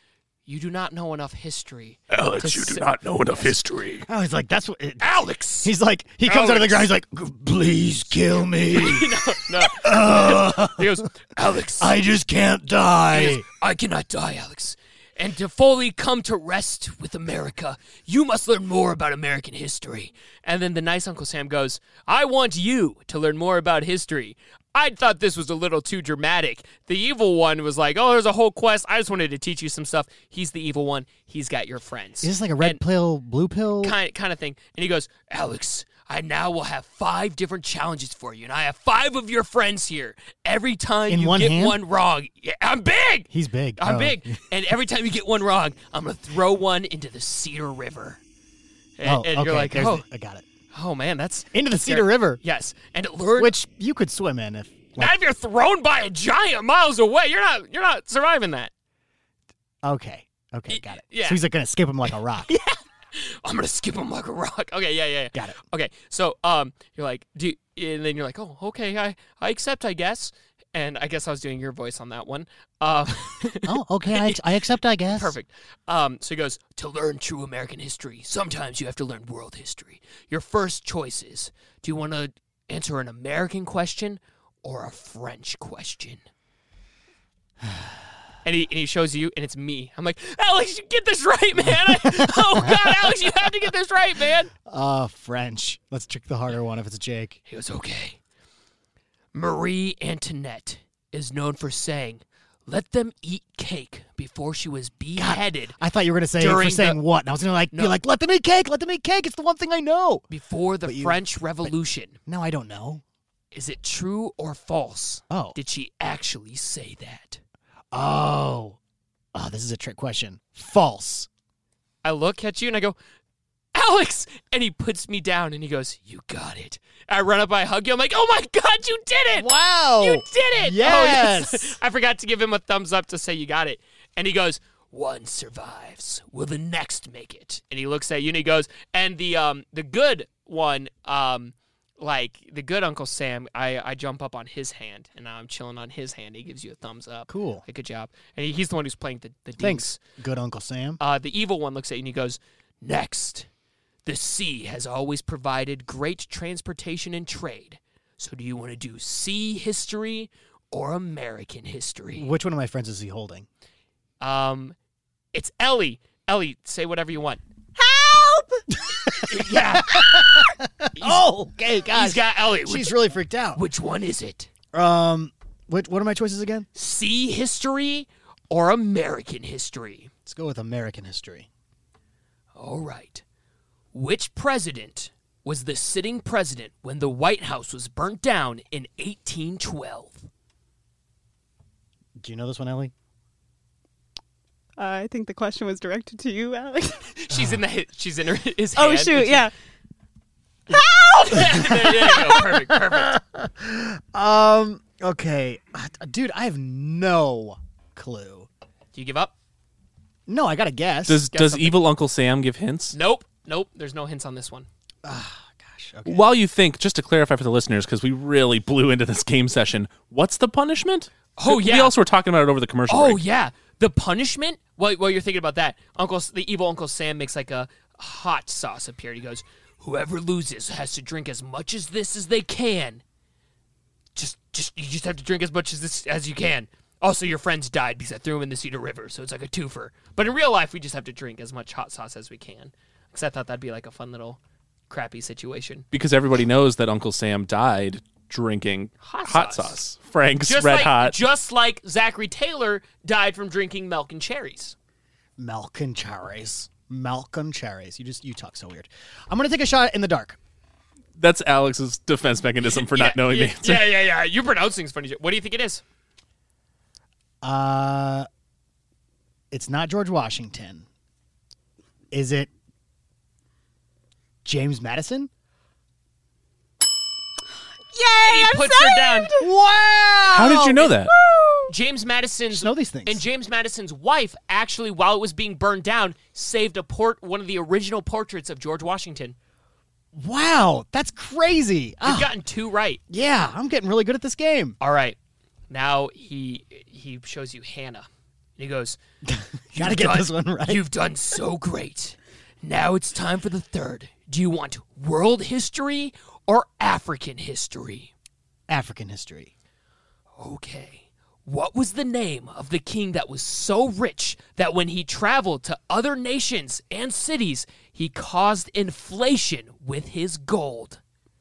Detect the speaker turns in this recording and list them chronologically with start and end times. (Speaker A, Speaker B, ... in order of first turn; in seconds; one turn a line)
Speaker A: 0.5-3.5
Speaker B: 2.1-4.0
Speaker C: 4.0-11.0
Speaker A: 5.0-5.7
Speaker A: 6.2-6.9
Speaker A: 8.7-12.0
Speaker C: 11.8-13.4
Speaker A: 13.1-32.8
Speaker C: 32.2-34.0
Speaker A: 33.8-48.2
Speaker C: 41.1-41.8
Speaker C: 43.3-44.4
Speaker A: 49.0-50.0
Speaker C: 49.0-50.4
Speaker A: 50.7-53.6
Speaker C: 51.5-52.4
Speaker C: 53.4-55.1
Speaker A: 55.0-58.7
Speaker C: 59.8-62.5
Speaker A: 60.7-61.4
Speaker A: 62.5-74.4
Speaker C: 65.3-65.6
Speaker C: 73.5-75.3
Speaker A: 75.1-86.2
Speaker A: 88.4-94.5
Speaker C: 91.8-93.2
Speaker C: 94.7-97.4
Speaker A: 97.5-98.2
Speaker A: 99.3-105.8
Speaker C: 105.2-110.2
Speaker A: 106.4-107.0
Speaker A: 107.7-108.0
Speaker A: 110.3-112.2
Speaker C: 110.8-111.7
Speaker C: 112.2-113.0
Speaker A: 113.5-117.4
Speaker C: 115.3-115.6
Speaker C: 117.9-118.8
Speaker C: 119.3-121.3
Speaker A: 122.0-123.0
Speaker A: 123.7-150.0
Speaker C: 129.3-131.8
Speaker C: 147.3-147.6
Speaker C: 149.6-151.0
Speaker A: 151.0-153.5
Speaker A: 154.0-162.3
Speaker C: 162.1-163.5
Speaker A: 164.2-164.8
Speaker A: 165.3-167.4
Speaker D: 167.8-168.7
Speaker C: 168.8-173.6
Speaker A: 169.2-170.2
Speaker A: 170.9-171.2
Speaker A: 171.9-173.0
Speaker A: 173.5-174.5
Speaker C: 174.7-176.7
Speaker A: 176.7-180.1
Speaker C: 180.2-181.5
Speaker A: 182.6-183.2
Speaker A: 183.9-190.3
Speaker C: 192.2-192.9
Speaker D: 194.8-197.1
Speaker A: 197.2-199.5
Speaker C: 197.3-197.6
Speaker D: 198.8-199.5
Speaker D: 200.7-201.7
Speaker A: 201.2-203.2
Speaker C: 201.3-208.5
Speaker A: 208.9-209.3
Speaker C: 210.3-211.2
Speaker B: 211.1-212.9
Speaker A: 211.3-211.8
Speaker A: 212.9-214.7
Speaker C: 215.0-216.3
Speaker B: 216.1-223.2
Speaker A: 221.4-221.9
Speaker A: 222.9-233.0
Speaker A: 234.1-244.4
Speaker A: 244.9-245.8
Speaker B: 245.9-251.2
Speaker A: 249.0-249.8
Speaker A: 250.4-254.8
Speaker C: 255.4-260.4
Speaker B: 261.2-263.9
Speaker A: 262.8-265.8
Speaker C: 267.4-268.3
Speaker C: 269.5-270.9
Speaker C: 272.1-272.5
Speaker C: 274.4-275.3
Speaker D: 277.9-279.5
Speaker A: 278.2-279.3
Speaker C: 279.4-280.9
Speaker B: 280.3-281.1
Speaker D: 281.0-281.7
Speaker A: 281.7-289.4
Speaker C: 282.5-283.2
Speaker C: 290.1-292.3
Speaker A: 292.0-293.0
Speaker C: 293.1-294.8
Speaker A: 294.8-295.2
Speaker A: 295.7-299.0
Speaker C: 299.2-300.8
Speaker A: 299.7-308.1
Speaker C: 308.7-309.5
Speaker A: 310.4-321.0